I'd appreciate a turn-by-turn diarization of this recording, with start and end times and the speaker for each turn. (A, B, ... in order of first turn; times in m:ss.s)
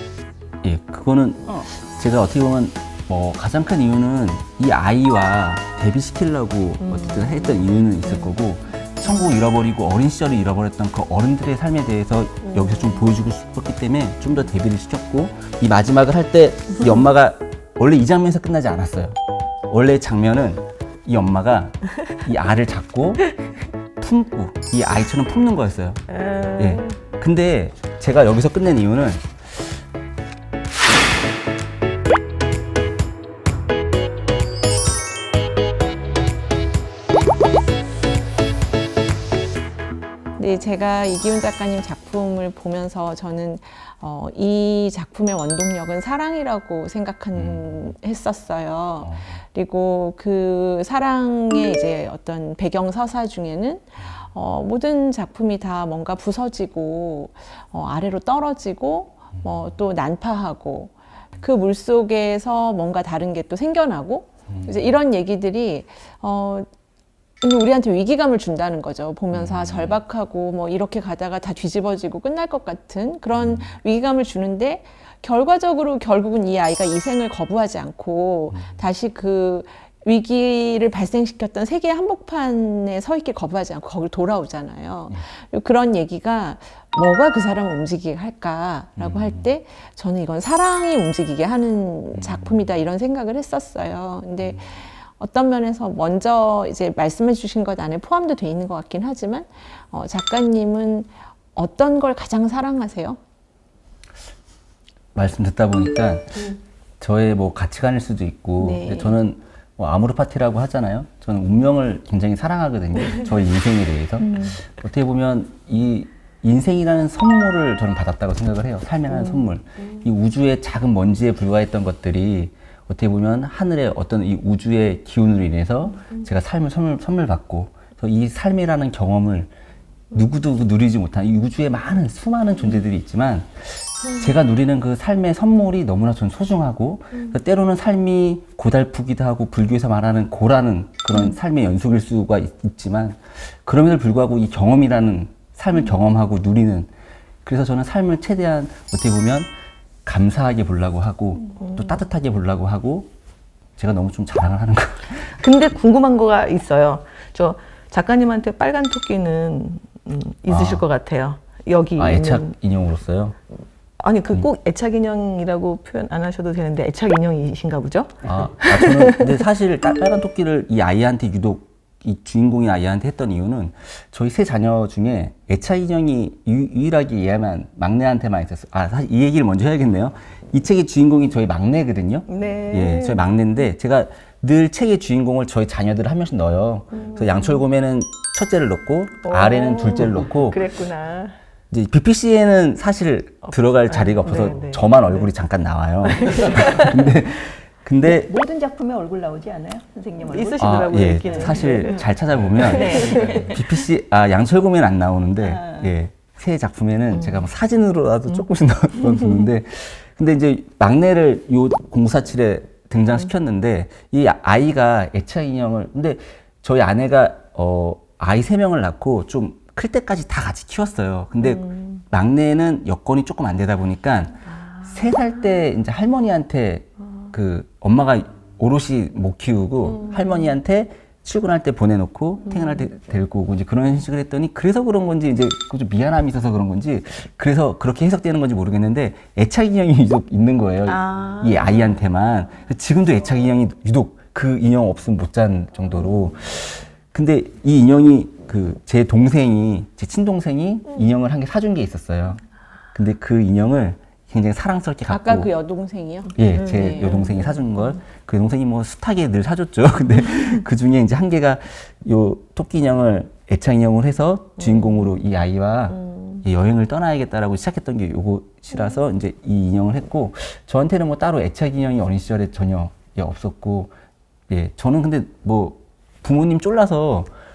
0:00.6-0:19.2 A
0:06.8-0:08.3 B
0:12.5-0:13.0 B
0:19.7-0:23.2 A
0:24.0-0:26.0 A
0:26.2-0:26.9 B
0:26.6-0:29.8 A
0:40.4-1:06.7 C
0:47.3-0:47.9 A
0:49.0-0:49.4 A
1:04.5-1:04.9 A
1:07.4-1:43.2 C
1:09.3-1:10.0 A
1:13.3-1:13.7 A
1:18.5-1:18.8 A
1:29.0-1:29.5 A
1:32.1-1:32.7 A
1:45.1-2:09.5 A
1:48.6-1:49.1 D
2:10.1-2:26.9 A
2:27.4-2:29.5 A
2:30.0-2:33.1 A
2:31.6-2:31.9 B
2:33.8-2:35.3 A
2:35.3-2:42.5 B
2:40.5-2:40.8 A
2:42.0-2:43.4 A
2:44.0-2:49.2 B
2:48.2-3:10.6 A
3:02.3-3:03.3 B
3:07.0-3:07.6 B
3:09.2-3:11.4 B
3:11.7-3:18.3 A
3:13.9-3:15.3 B
3:16.1-3:17.0 B
3:18.1-3:21.9 D
3:20.2-3:22.1 B
3:20.6-4:12.4 A
3:22.6-3:23.6 D
3:22.7-3:23.4 B
3:25.4-3:25.9 D
3:27.2-3:27.4 B
3:41.4-3:41.9 B
3:50.0-3:50.5 B
4:01.0-4:01.4 B
4:12.9-4:15.5 A
4:15.1-4:17.1 C
4:16.4-4:33.9 A
4:16.9-4:18.0 B
4:24.6-4:25.0 B
4:25.9-4:26.4 B
4:34.5-4:37.3 A